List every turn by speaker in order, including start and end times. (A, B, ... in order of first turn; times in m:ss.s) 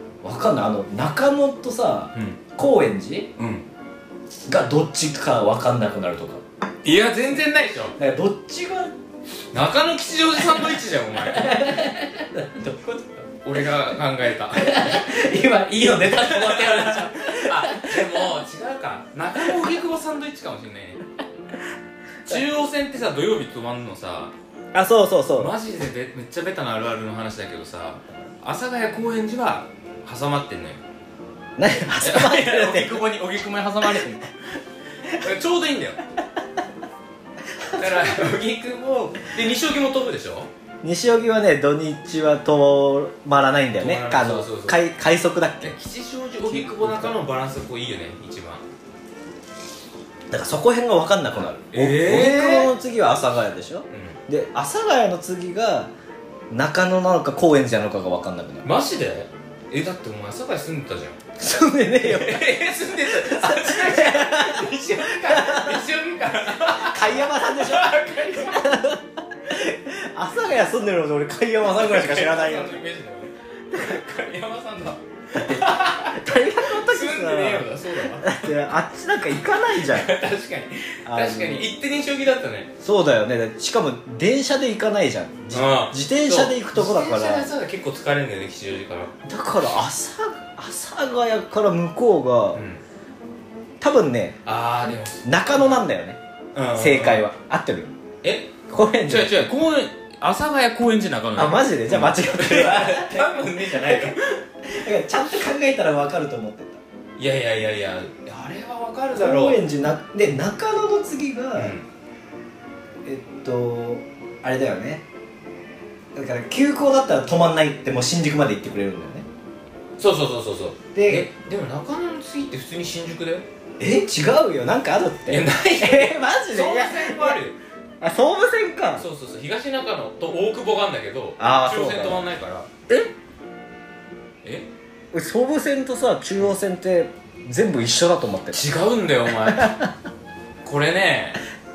0:00.2-0:03.3 A
0:02.1-0:02.4 B
0:03.4-0:03.6 B
0:04.5-0:06.4 A
0:06.8-0:08.0 B
0:08.0-0:08.9 A
0:09.5-0:11.7 B
0:10.4-0:13.3 A
0:13.4-0:15.2 B
0:14.5-0:18.2 A
0:15.9-0:21.0 B
0:19.3-0:19.6 A
0:22.2-0:24.3 B
0:24.7-0:25.5 A
0:25.4-0:30.8 B
0:31.6-0:33.2 A
0:32.0-0:34.3 B
0:35.0-0:36.0 B
0:37.6-0:38.3 A
0:37.7-0:40.5 B
0:40.8-0:45.8 A
0:43.8-0:44.8 B
0:45.6-0:48.6 B
0:46.4-0:47.2 A
0:50.3-0:55.9 A
0:51.7-0:52.8 B
0:53.9-0:54.2 B
0:56.5-0:58.6 A
0:58.6-1:01.2 B
1:01.4-1:05.9 A
1:02.0-1:08.8 B
1:06.5-1:12.8 A
1:11.6-1:18.6 B
1:13.7-1:14.0 A
1:15.3-1:20.1 A
1:19.5-1:22.7 B
1:21.0-1:21.7 A
1:22.8-1:27.5 A
1:25.5-1:29.1 B
1:29.2-1:32.6 A
1:32.5-1:32.8 B
1:33.8-1:34.4 A
1:34.4-1:35.8 B
1:35.2-1:36.2 A
1:36.5-1:37.3 B
1:36.7-1:37.9 A
1:38.2-1:44.4 B
1:38.7-1:39.3 A
1:41.4-1:46.8 A
1:47.2-1:49.6 B
1:49.2-1:51.8 A
1:51.5-1:51.8 B
1:53.0-1:55.0 A
1:56.1-1:59.2 A
2:00.0-2:03.4 B
2:00.9-2:01.3 A
2:03.8-2:07.4 A
2:05.3-2:07.6 B
2:08.0-2:09.0 A
2:09.0-2:12.7 B
2:11.4-2:12.2 A
2:14.4-2:14.7 B
2:15.1-2:18.6 A
2:18.5-2:19.9 B
2:19.5-2:19.9 A
2:20.6-2:21.4 B